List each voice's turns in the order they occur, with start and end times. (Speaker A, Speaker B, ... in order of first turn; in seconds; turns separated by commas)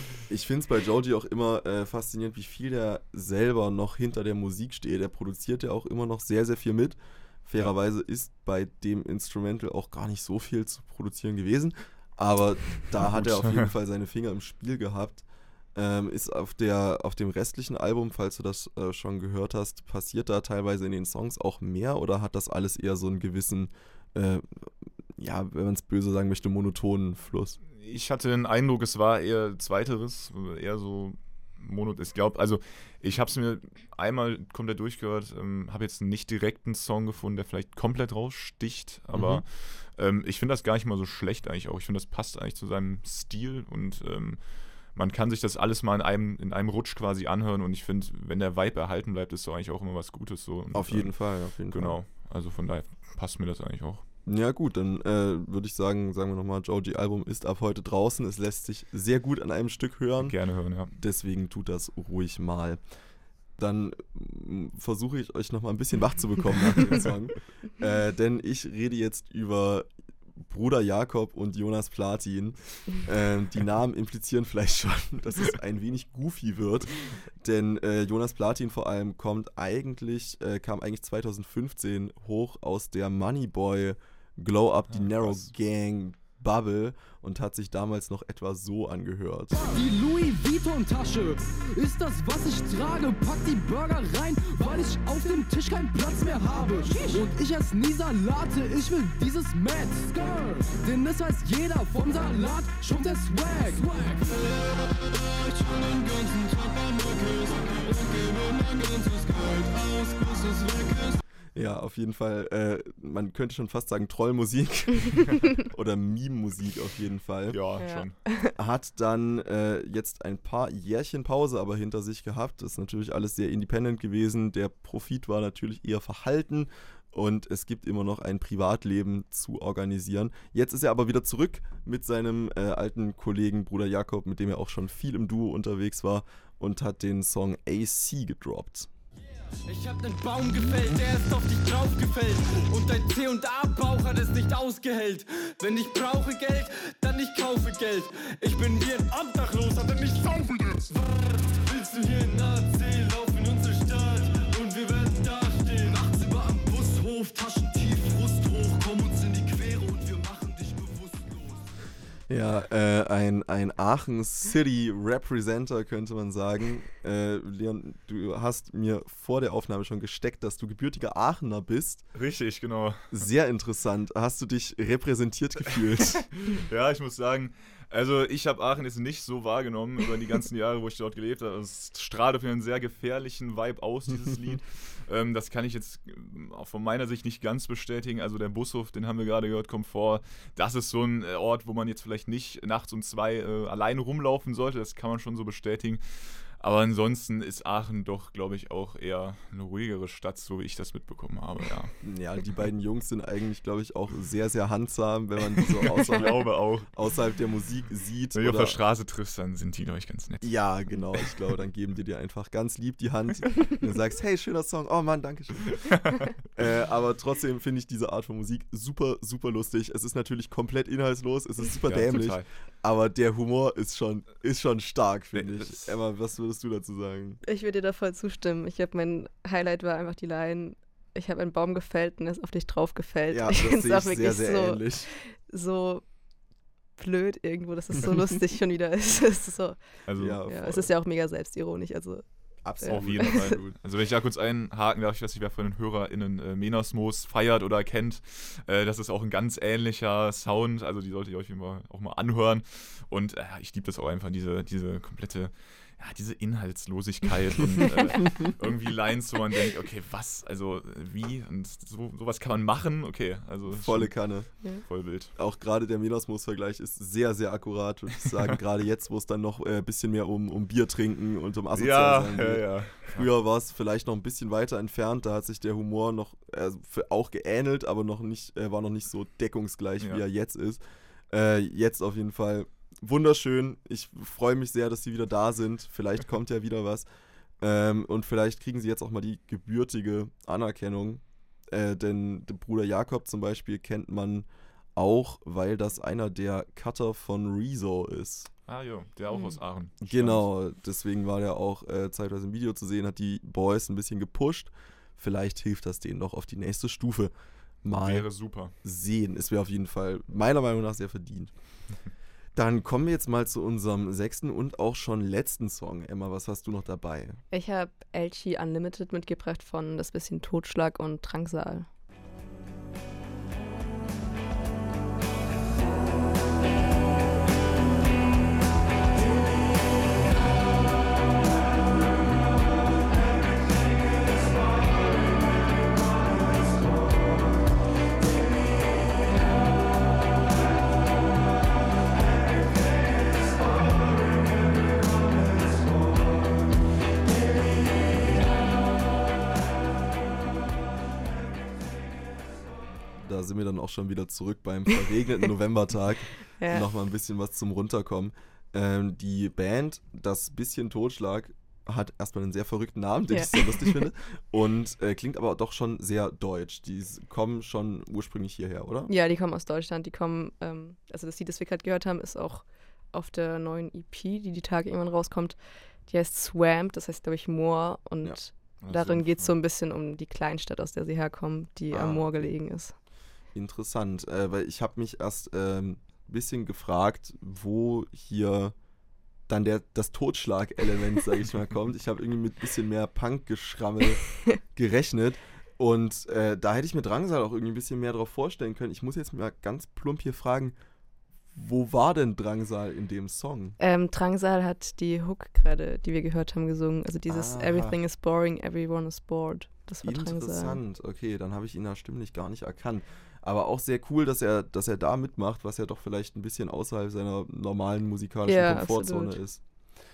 Speaker A: 0.3-24.4, Speaker B: 13.0-13.7, Speaker A: 25.2-27.6, Speaker B: 27.8-51.1, Speaker A: 39.1-39.4, Speaker A: 50.7-52.0, Speaker B: 51.7-54.0, Speaker A: 54.2-60.4, Speaker B: 60.2-60.9, Speaker A: 60.9-62.8, Speaker A: 63.6-69.9, Speaker A: 70.4-89.6, Speaker B: 84.9-85.5, Speaker C: 89.5-111.2, Speaker A: 111.5-117.6, Speaker B: 117.5-118.1, Speaker D: 117.8-118.5, Speaker A: 118.5-138.9, Speaker C: 139.7-161.6, Speaker A: 162.3-172.1, Speaker B: 172.1-173.2, Speaker A: 173.1-176.3, Speaker B: 176.4-201.9, Speaker A: 202.0-208.8, Speaker B: 205.6-206.9, Speaker B: 208.3-210.6, Speaker A: 210.4-215.9, Speaker B: 211.1-211.4, Speaker B: 215.8-216.3, Speaker A: 216.5-227.4, Speaker B: 221.8-222.5, Speaker B: 225.3-225.9, Speaker D: 227.4-236.1, Speaker A: 233.3-235.1, Speaker D: 237.0-239.8, Speaker B: 240.1-240.4, Speaker A: 240.1-240.9, Speaker D: 240.4-242.2, Speaker A: 242.6-243.8, Speaker D: 242.8-243.6, Speaker B: 242.8-264.2, Speaker A: 263.7-264.5, Speaker B: 264.8-265.3, Speaker A: 265.4-287.1, Speaker B: 271.7-273.3, Speaker A: 287.6-298.5, Speaker B: 298.7-300.4, Speaker A: 300.0-307.3, Speaker A: 307.8-308.3, Speaker B: 307.9-308.7, Speaker A: 308.8-311.5, Speaker A: 312.5-317.4, Speaker D: 317.5-321.9, Speaker A: 353.2-369.1, Speaker D: 356.6-356.8, Speaker D: 363.3-364.1, Speaker D: 369.1-382.9, Speaker B: 378.8-379.5, Speaker A: 381.9-382.5, Speaker A: 383.5-388.7, Speaker A: 389.5-400.8, Speaker A: 401.5-403.8, Speaker D: 403.8-410.8, Speaker A: 407.3-408.0, Speaker A: 410.0-419.6, Speaker D: 418.5-419.4